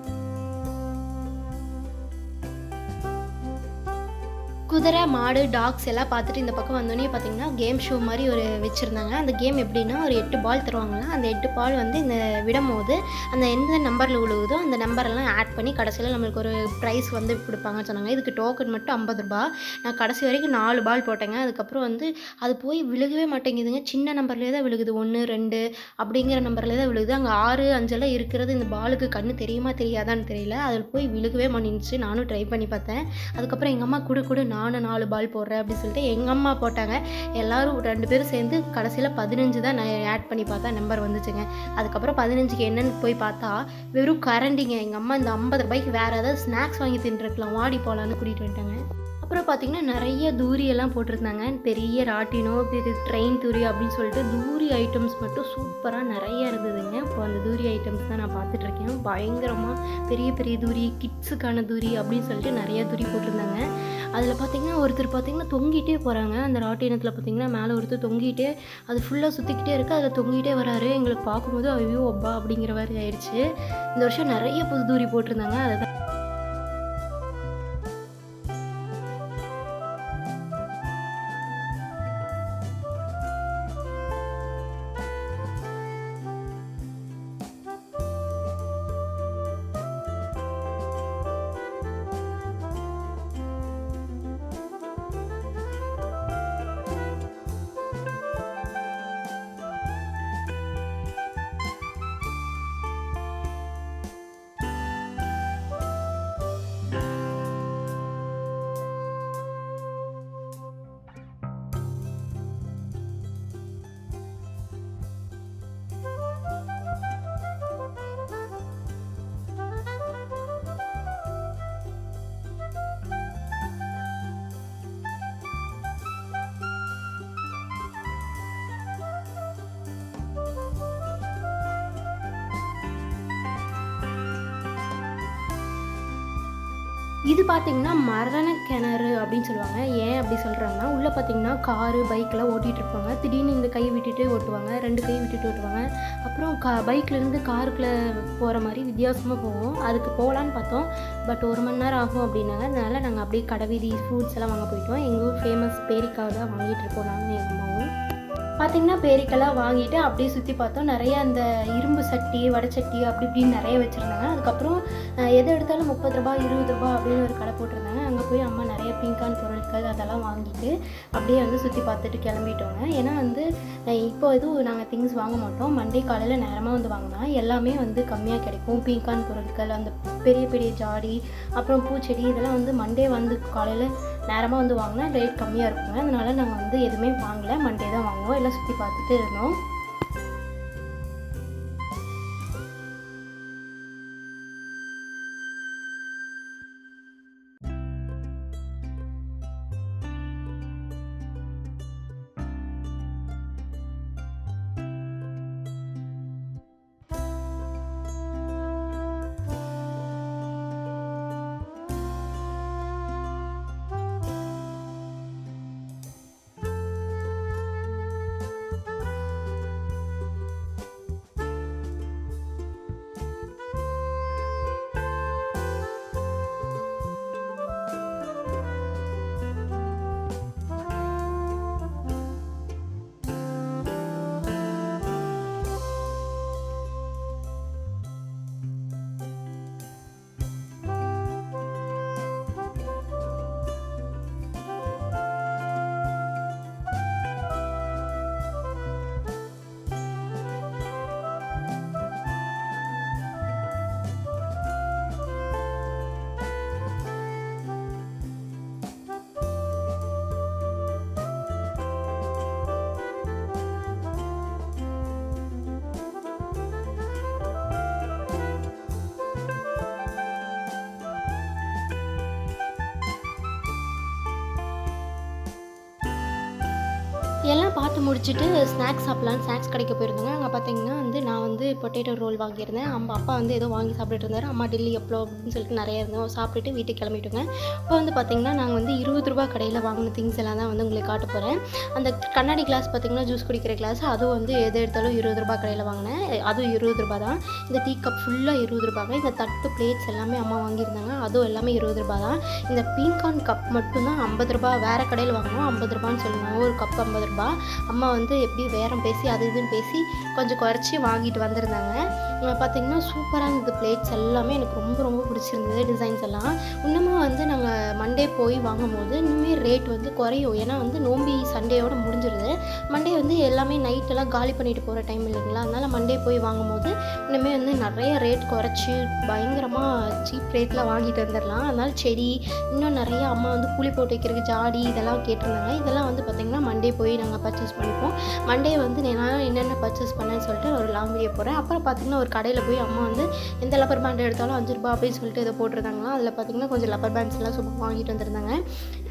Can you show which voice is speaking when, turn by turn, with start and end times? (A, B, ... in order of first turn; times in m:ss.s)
0:04.7-1:03.6 A
1:04.2-1:13.4 A
1:14.0-1:15.8 A
2:17.3-2:37.9 A
2:38.6-2:44.8 A
2:45.4-3:09.5 A
4:37.5-5:48.6 A